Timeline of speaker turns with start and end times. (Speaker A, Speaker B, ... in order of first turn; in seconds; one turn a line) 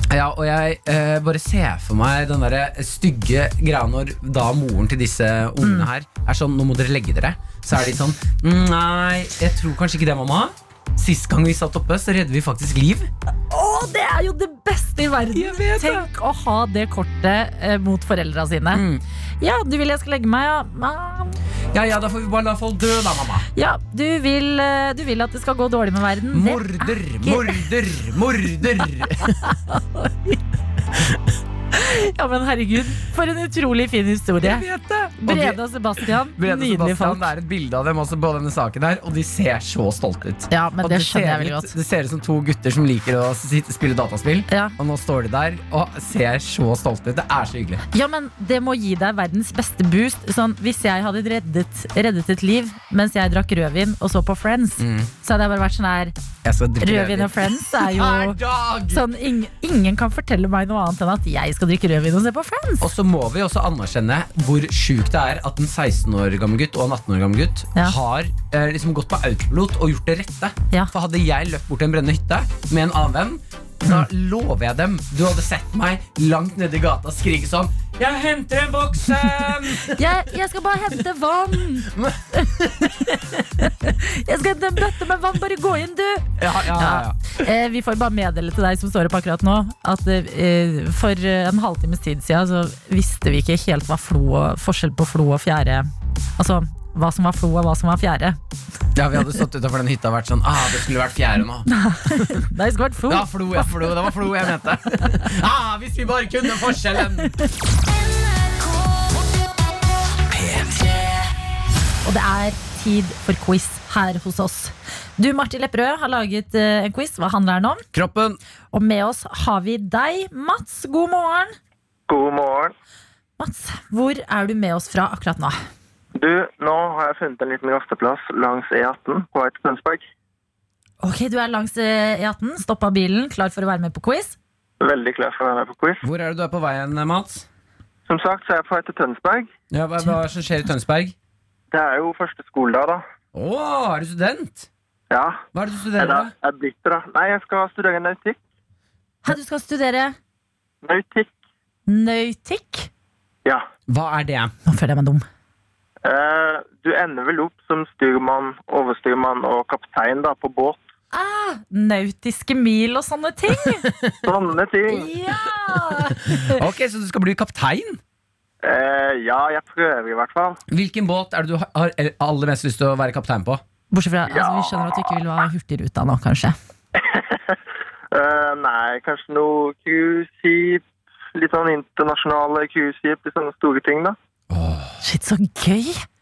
Speaker A: 0.1-13.1
Speaker B: 5.6-5.9
Speaker B: 13.5-18.8
Speaker A: 15.3-16.1
Speaker A: 18.7-19.0
Speaker B: 19.4-21.4
Speaker A: 21.7-23.5
Speaker B: 23.6-27.6
Speaker A: 26.3-29.5
Speaker B: 29.2-30.4
Speaker B: 31.7-34.6
Speaker A: 34.4-47.8
Speaker B: 35.2-37.3
Speaker B: 40.5-41.7
Speaker B: 44.5-44.8
Speaker B: 47.9-56.1
Speaker A: 54.8-55.1
Speaker A: 56.4-59.0
Speaker B: 56.8-62.9
Speaker A: 62.8-80.0
Speaker B: 79.9-98.4
Speaker A: 81.9-83.4
Speaker A: 86.4-87.3
Speaker A: 99.0-102.4
Speaker B: 101.7-104.3
Speaker A: 103.1-107.4
Speaker A: 110.3-110.9
Speaker B: 112.0-117.8
Speaker A: 117.9-118.4
Speaker B: 118.7-121.6
Speaker C: 122.1-122.7
Speaker B: 123.4-125.6
Speaker C: 126.2-130.1
Speaker B: 131.0-134.4
Speaker C: 134.8-136.0
Speaker A: 136.0-137.5
Speaker C: 138.1-139.5
Speaker A: 139.7-141.2
Speaker C: 141.7-143.1
Speaker A: 143.3-144.7
Speaker C: 145.1-145.4
Speaker A: 145.5-146.3
Speaker C: 146.0-148.4
Speaker B: 149.2-150.2
Speaker C: 150.8-151.3
Speaker B: 151.9-152.9
Speaker A: 153.9-154.5
Speaker B: 154.7-155.2
Speaker C: 156.1-160.8
Speaker B: 161.1-163.9
Speaker A: 163.9-164.2
Speaker C: 164.2-165.1
Speaker B: 164.9-166.6
Speaker A: 165.9-168.0
Speaker C: 168.6-170.6
Speaker A: 170.7-173.6
Speaker B: 173.9-176.6
Speaker C: 174.3-175.2
Speaker C: 178.1-180.8
Speaker C: 181.3-184.2
Speaker A: 184.5-185.0
Speaker B: 185.0-186.0